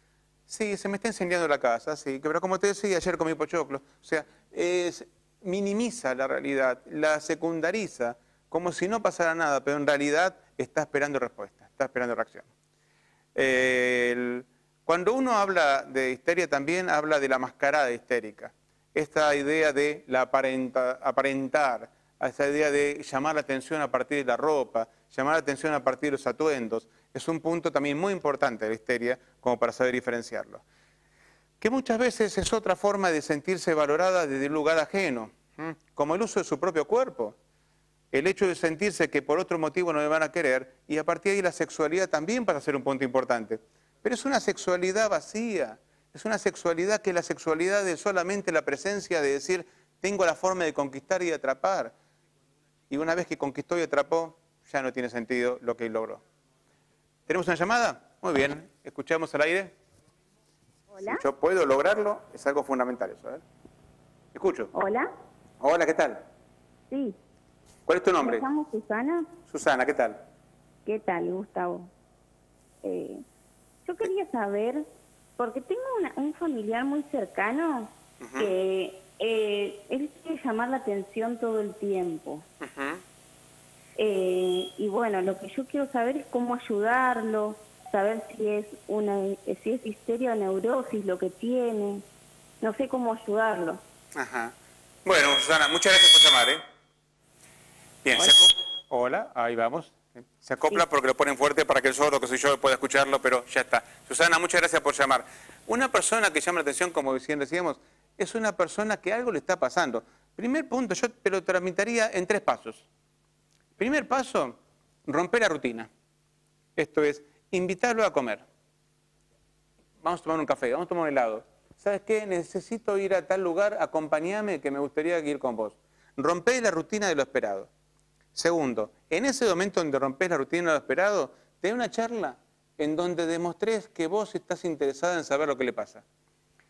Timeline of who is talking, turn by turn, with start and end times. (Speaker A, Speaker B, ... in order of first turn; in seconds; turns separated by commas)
Speaker A: 0.5-12.5, Speaker A: 13.3-30.6, Speaker A: 31.6-37.4, Speaker A: 38.1-51.9, Speaker A: 52.9-56.2, Speaker A: 57.3-59.7, Speaker B: 60.9-61.2, Speaker A: 61.0-63.4, Speaker A: 64.3-64.7, Speaker B: 64.7-65.1, Speaker A: 65.6-66.2, Speaker B: 66.9-67.2, Speaker A: 67.9-68.5, Speaker B: 68.2-69.3, Speaker A: 69.5-70.2, Speaker B: 70.8-71.9, Speaker B: 72.8-73.2, Speaker B: 73.8-74.8, Speaker B: 75.4-82.4, Speaker A: 78.2-78.5, Speaker A: 82.6-83.0, Speaker B: 84.0-92.0, Speaker B: 92.6-93.8, Speaker A: 94.2-94.5, Speaker A: 95.0-96.6, Speaker A: 98.0-112.9, Speaker A: 113.8-115.9, Speaker A: 116.8-118.4, Speaker A: 120.0-127.7, Speaker A: 128.3-136.0